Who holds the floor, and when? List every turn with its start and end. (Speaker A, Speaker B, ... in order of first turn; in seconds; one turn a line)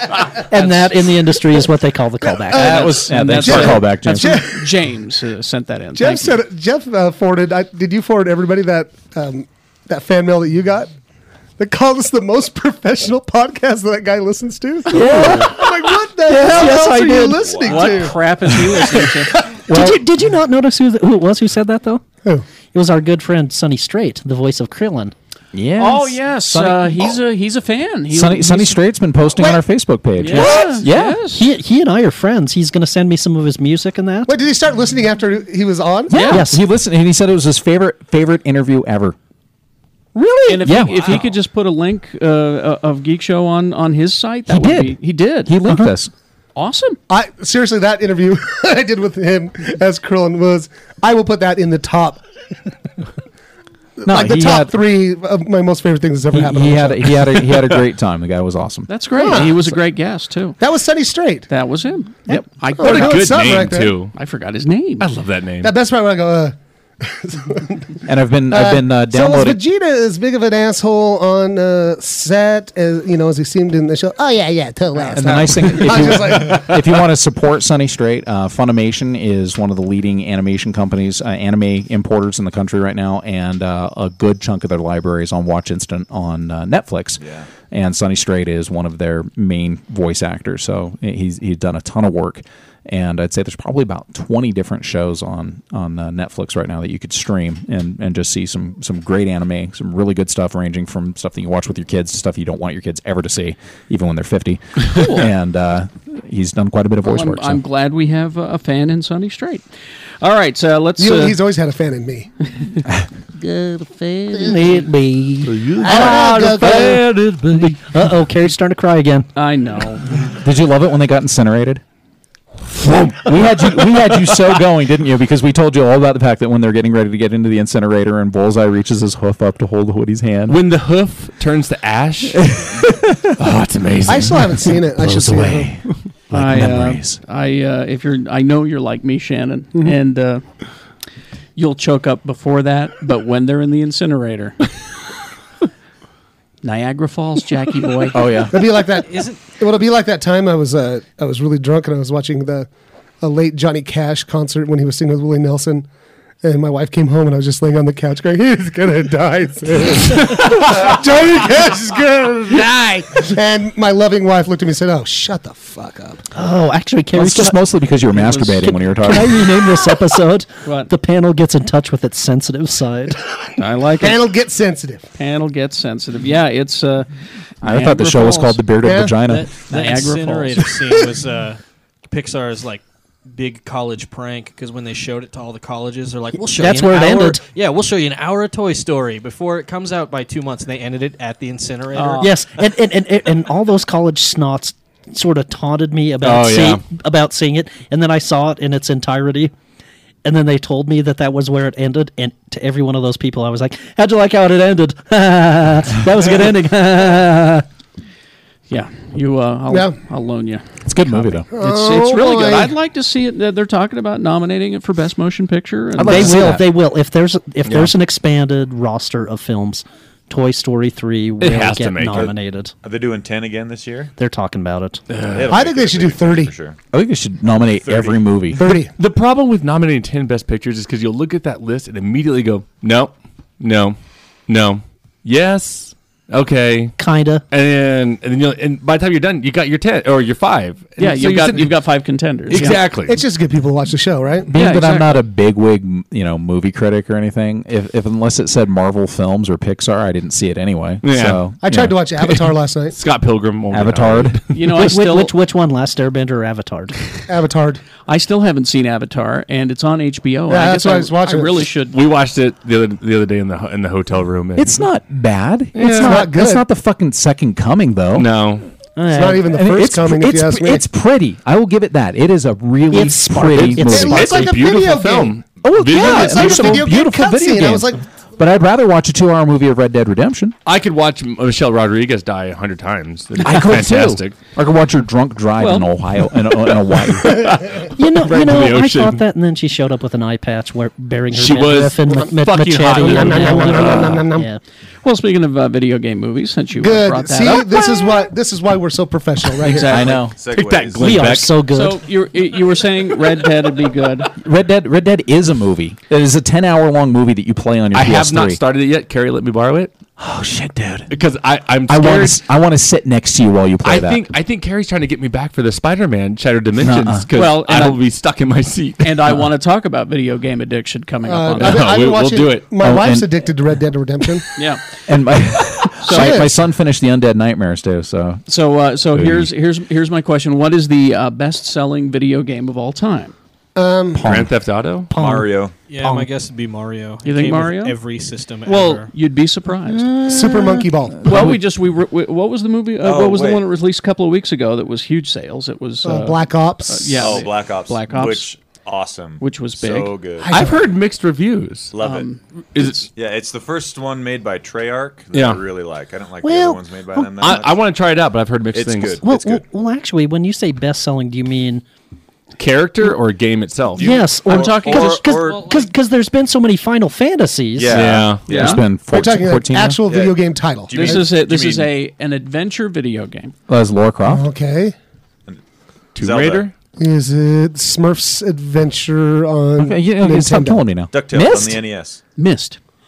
Speaker A: 0.5-3.0
Speaker B: 0.6-0.9
Speaker C: 2.5-4.7
Speaker D: 2.5-4.4
Speaker B: 2.8-6.4
Speaker C: 6.0-10.9
Speaker C: 11.6-19.6
Speaker A: 14.9-15.7
Speaker D: 15.0-15.4
Speaker A: 16.2-17.6
Speaker E: 17.4-18.0
Speaker B: 17.6-19.4
Speaker D: 19.7-20.0
Speaker A: 19.7-22.0
Speaker A: 22.7-25.1
Speaker D: 25.5-27.1
Speaker B: 25.8-28.8
Speaker D: 28.1-31.2
Speaker C: 29.4-29.6
Speaker B: 30.2-31.4
Speaker A: 30.3-34.4
Speaker C: 30.3-30.8
Speaker C: 34.3-36.2
Speaker D: 36.1-39.2
Speaker B: 36.1-36.5
Speaker A: 36.2-36.6
Speaker D: 40.5-41.2
Speaker B: 40.5-45.5
Speaker D: 44.5-46.1
Speaker B: 46.5-47.0
Speaker C: 47.1-52.2
Speaker C: 54.0-57.3
Speaker D: 54.0-54.7
Speaker D: 56.3-59.1
Speaker B: 58.9-60.6
Speaker C: 59.2-59.7
Speaker C: 60.6-61.5
Speaker B: 61.5-63.5
Speaker C: 62.8-64.0
Speaker F: 62.8-64.1
Speaker B: 64.1-65.1
Speaker F: 65.0-65.7
Speaker C: 65.6-68.0
Speaker D: 68.1-69.6
Speaker C: 68.5-77.0
Speaker D: 75.1-107.6
Speaker E: 87.2-87.5
Speaker B: 104.9-105.3
Speaker B: 107.0-109.6
Speaker B: 110.2-111.4
Speaker C: 111.0-112.3
Speaker A: 113.4-119.3
Speaker F: 115.5-117.8
Speaker C: 115.8-117.0
Speaker B: 119.4-120.2
Speaker D: 120.3-121.8
Speaker D: 122.8-130.6
Speaker F: 130.5-132.8
Speaker D: 132.4-133.3
Speaker F: 133.4-134.8
Speaker C: 134.1-135.8
Speaker D: 135.0-137.2
Speaker B: 136.3-140.4
Speaker B: 141.6-144.6
Speaker B: 146.6-148.2
Speaker D: 148.1-148.6
Speaker C: 148.5-152.7
Speaker G: 149.1-149.4
Speaker C: 153.2-155.9
Speaker C: 156.4-166.2
Speaker A: 166.3-167.6
Speaker D: 167.1-169.6
Speaker A: 168.4-173.2
Speaker B: 170.7-170.9
Speaker B: 173.6-174.2
Speaker C: 174.0-175.1
Speaker B: 175.2-177.1
Speaker B: 177.6-178.6
Speaker D: 177.6-179.6
Speaker C: 178.8-179.2
Speaker G: 179.2-192.4
Speaker B: 179.7-180.7
Speaker A: 186.5-187.4
Speaker B: 191.9-192.3
Speaker A: 192.2-199.5
Speaker F: 196.2-196.8
Speaker A: 200.2-207.7
Speaker B: 208.7-216.6
Speaker C: 209.7-209.9
Speaker D: 210.8-211.5
Speaker C: 211.5-212.8
Speaker D: 216.0-216.6
Speaker A: 216.1-222.7
Speaker F: 221.4-222.3
Speaker E: 222.1-224.1
Speaker A: 224.2-225.0
Speaker F: 225.1-225.5
Speaker E: 225.3-226.8
Speaker C: 225.5-226.5
Speaker D: 226.9-228.7
Speaker E: 227.8-228.2
Speaker C: 228.5-228.9
Speaker F: 229.0-237.0
Speaker A: 237.0-237.4
Speaker F: 237.5-241.8
Speaker B: 241.0-242.8
Speaker F: 242.5-243.2
Speaker C: 243.0-244.6
Speaker D: 244.5-252.0
Speaker B: 244.5-245.2
Speaker F: 251.0-251.5
Speaker C: 251.6-252.9
Speaker F: 252.9-254.4
Speaker D: 253.7-254.4
Speaker B: 254.5-255.3
Speaker A: 254.7-257.0
Speaker C: 257.3-257.8
Speaker B: 258.1-262.0
Speaker C: 260.5-261.6
Speaker F: 261.9-264.8
Speaker D: 264.6-268.4
Speaker F: 265.8-266.2
Speaker C: 266.0-266.7
Speaker F: 268.1-268.7
Speaker A: 269.0-269.5
Speaker C: 269.1-270.9
Speaker D: 269.5-274.2
Speaker A: 272.9-274.5
Speaker C: 273.8-278.0
Speaker F: 273.9-276.8
Speaker D: 275.6-280.6
Speaker F: 280.6-284.4
Speaker D: 283.4-287.6
Speaker B: 285.6-285.9
Speaker F: 287.2-289.2
Speaker A: 287.9-294.6
Speaker F: 291.3-294.2
Speaker C: 293.0-294.5
Speaker B: 293.4-293.9
Speaker B: 295.0-297.8
Speaker C: 296.8-300.2
Speaker B: 299.6-300.2
Speaker D: 299.9-300.4
Speaker E: 300.4-301.4
Speaker F: 300.5-301.5
Speaker A: 301.0-302.0
Speaker B: 301.7-304.3
Speaker D: 304.4-308.6
Speaker F: 307.9-310.0
Speaker D: 310.2-311.1
Speaker F: 311.1-312.4
Speaker D: 311.9-314.2
Speaker F: 313.8-319.3
Speaker D: 316.8-317.3
Speaker B: 317.3-318.0
Speaker B: 319.0-321.8
Speaker C: 321.3-324.5
Speaker F: 321.6-322.7
Speaker D: 322.8-323.3
Speaker B: 324.6-324.8
Speaker D: 325.1-328.4
Speaker B: 326.0-326.4
Speaker C: 326.1-326.6
Speaker B: 328.5-333.3
Speaker D: 329.1-329.5
Speaker C: 333.8-334.3
Speaker D: 334.2-334.6
Speaker F: 334.2-335.1
Speaker A: 335.1-336.3
Speaker E: 335.1-335.7
Speaker G: 335.9-339.1
Speaker B: 337.2-338.0
Speaker B: 338.7-340.1
Speaker A: 340.0-340.8
Speaker C: 340.3-341.5
Speaker D: 341.2-341.6
Speaker B: 341.2-348.5
Speaker E: 343.0-343.7
Speaker C: 346.0-347.3
Speaker E: 347.2-350.5
Speaker B: 349.4-350.1
Speaker F: 350.4-351.9
Speaker C: 350.5-350.8
Speaker E: 351.9-352.3
Speaker B: 352.0-353.1
Speaker F: 352.8-353.1
Speaker E: 353.2-357.9
Speaker F: 355.3-355.6
Speaker F: 357.4-359.2
Speaker E: 358.7-359.6
Speaker A: 359.2-361.8
Speaker F: 362.6-364.2
Speaker E: 363.9-365.9
Speaker A: 364.0-368.0
Speaker B: 364.5-365.3
Speaker E: 367.8-368.8
Speaker F: 367.9-368.7
Speaker D: 368.2-370.0
Speaker B: 368.5-368.8
Speaker C: 369.0-371.3
Speaker E: 370.1-371.9
Speaker B: 370.9-373.5
Speaker D: 373.7-374.5
Speaker C: 374.2-374.9
Speaker E: 376.1-376.7
Speaker F: 376.2-376.7
Speaker C: 377.0-380.9
Speaker D: 379.8-381.8
Speaker E: 381.1-382.2
Speaker B: 382.4-382.8